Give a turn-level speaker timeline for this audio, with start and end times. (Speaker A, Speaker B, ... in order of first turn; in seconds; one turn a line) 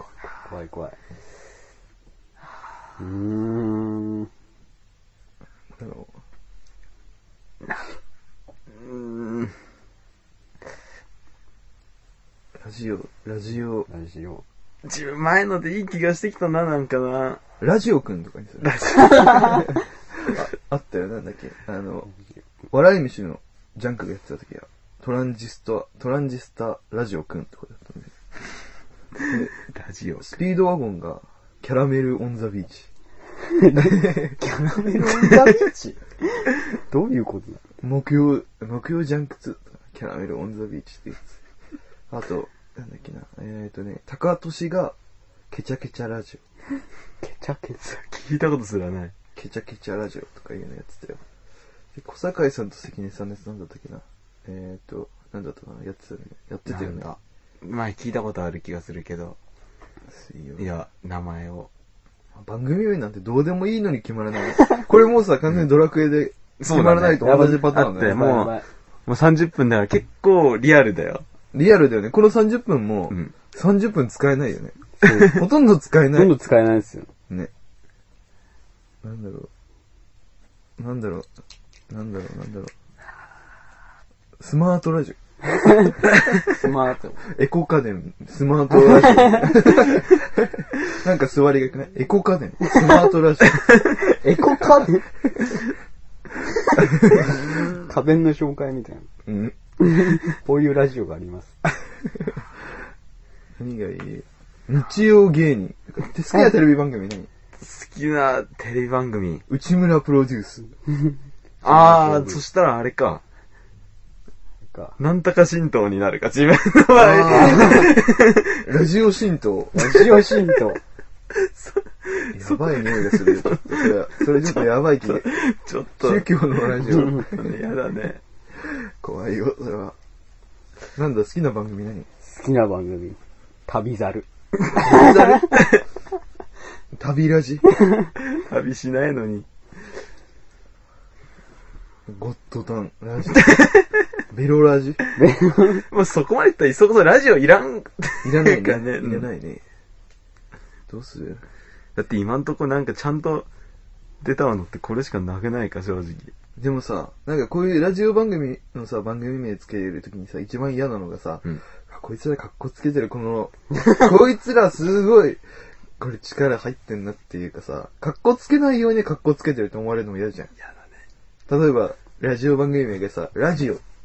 Speaker A: 0.4-1.0
Speaker A: 3.0-4.3
Speaker B: 5.8-6.1
Speaker C: 8.7-9.5
Speaker B: 12.6-13.9
Speaker A: 13.9-14.4
Speaker C: 14.8-17.4
Speaker B: 17.6-22.1
Speaker C: 18.6-19.8
Speaker B: 22.7-28.1
Speaker C: 29.2-30.4
Speaker B: 30.2-32.9
Speaker A: 33.4-37.6
Speaker B: 33.8-34.4
Speaker B: 37.8-41.4
Speaker B: 42.1-45.0
Speaker B: 45.5-46.4
Speaker A: 47.2-48.0
Speaker C: 48.0-49.1
Speaker B: 49.4-51.2
Speaker B: 51.9-57.1
Speaker C: 56.7-59.4
Speaker B: 60.1-60.7
Speaker C: 60.6-61.7
Speaker B: 62.3-68.4
Speaker C: 66.6-71.2
Speaker A: 67.1-68.7
Speaker B: 71.5-76.3
Speaker A: 75.0-75.4
Speaker A: 76.1-77.1
Speaker B: 79.0-79.5
Speaker B: 80.8-81.3
Speaker B: 81.9-82.7
Speaker B: 84.4-85.2
Speaker A: 85.6-87.2
Speaker B: 85.7-85.9
Speaker B: 87.2-93.8
Speaker A: 88.7-89.7
Speaker A: 94.1-95.1
Speaker A: 96.7-99.1
Speaker B: 96.8-97.3
Speaker B: 99.2-99.5
Speaker A: 99.8-101.5
Speaker B: 103.6-107.3
Speaker C: 107.6-109.4
Speaker B: 109.5-110.7
Speaker A: 110.9-112.4
Speaker C: 111.6-113.2
Speaker C: 115.0-118.7
Speaker B: 116.9-118.0
Speaker A: 117.3-117.9
Speaker B: 118.6-120.1
Speaker A: 119.7-120.8
Speaker C: 121.3-128.2
Speaker B: 122.3-125.3
Speaker B: 126.0-127.6
Speaker B: 128.6-129.9
Speaker B: 130.9-132.1
Speaker A: 132.2-135.5
Speaker B: 134.8-135.6
Speaker C: 135.5-135.8
Speaker B: 136.9-137.7
Speaker A: 137.8-138.1
Speaker C: 138.2-139.4
Speaker B: 142.1-143.6
Speaker C: 143.3-143.9
Speaker B: 144.3-145.0
Speaker A: 145.2-145.8
Speaker C: 145.9-149.3
Speaker B: 148.2-149.6
Speaker B: 150.9-151.4
Speaker C: 151.9-153.5
Speaker C: 154.2-156.3
Speaker B: 156.6-165.4
Speaker B: 166.0-170.5
Speaker B: 171.5-173.8